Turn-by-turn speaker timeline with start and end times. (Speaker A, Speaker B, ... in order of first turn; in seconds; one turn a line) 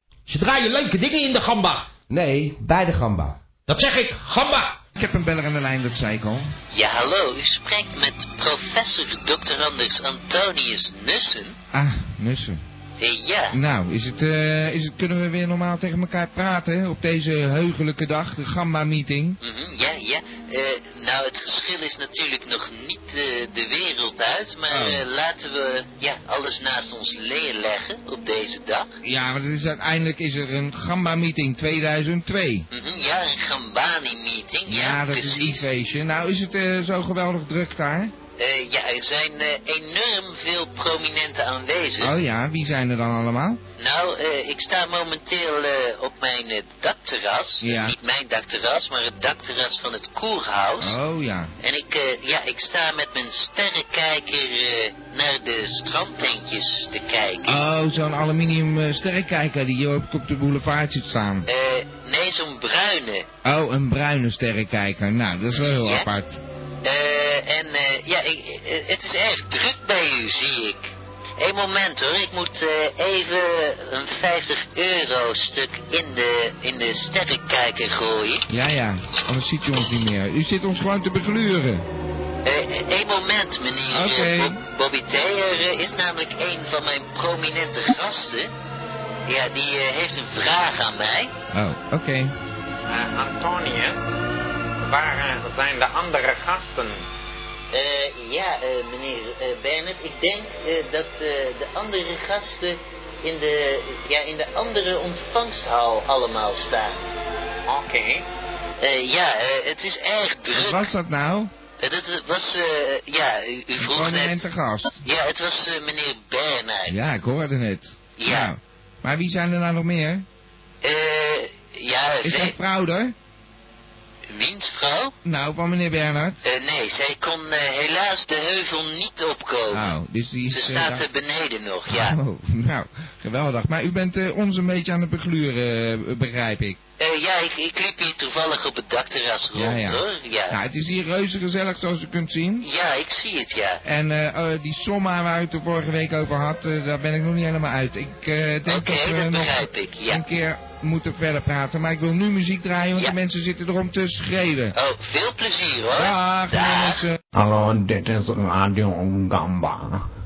Speaker A: 0.3-1.9
Speaker B: 2.1-3.4
Speaker A: 3.7-4.7
Speaker B: 5.0-6.5
Speaker C: 6.7-11.6
Speaker B: 11.7-12.6
Speaker C: 13.0-13.6
Speaker B: 13.5-19.4
Speaker C: 19.4-28.9
Speaker B: 24.7-25.0
Speaker B: 29.0-32.6
Speaker C: 32.7-35.7
Speaker B: 34.7-38.1
Speaker C: 38.4-42.2
Speaker B: 42.0-43.6
Speaker C: 43.8-51.0
Speaker B: 47.6-47.9
Speaker B: 50.8-51.5
Speaker C: 51.6-57.6
Speaker B: 57.5-61.5
Speaker C: 61.5-63.3
Speaker B: 63.4-66.4
Speaker C: 65.8-66.1
Speaker C: 66.8-78.4
Speaker B: 78.5-81.8
Speaker C: 82.4-88.5
Speaker B: 83.9-84.6
Speaker C: 89.3-91.3
Speaker B: 91.5-92.3
Speaker D: 92.9-94.1
Speaker D: 94.8-97.0
Speaker C: 97.7-107.0
Speaker D: 107.7-108.2
Speaker C: 108.8-110.9
Speaker B: 110.5-111.5
Speaker C: 111.8-114.4
Speaker B: 113.8-115.0
Speaker C: 115.0-117.0
Speaker B: 116.9-120.2
Speaker C: 118.2-118.5
Speaker C: 120.8-122.5
Speaker B: 122.2-123.1
Speaker C: 124.3-125.1
Speaker B: 125.2-126.4
Speaker C: 126.4-129.9
Speaker B: 129.7-131.1
Speaker C: 130.5-132.2
Speaker B: 131.9-136.8
Speaker C: 137.0-140.6
Speaker B: 139.5-142.7
Speaker C: 142.6-143.8
Speaker B: 143.8-154.7
Speaker C: 148.6-150.2
Speaker C: 154.7-157.0
Speaker B: 155.9-157.2
Speaker E: 157.3-160.0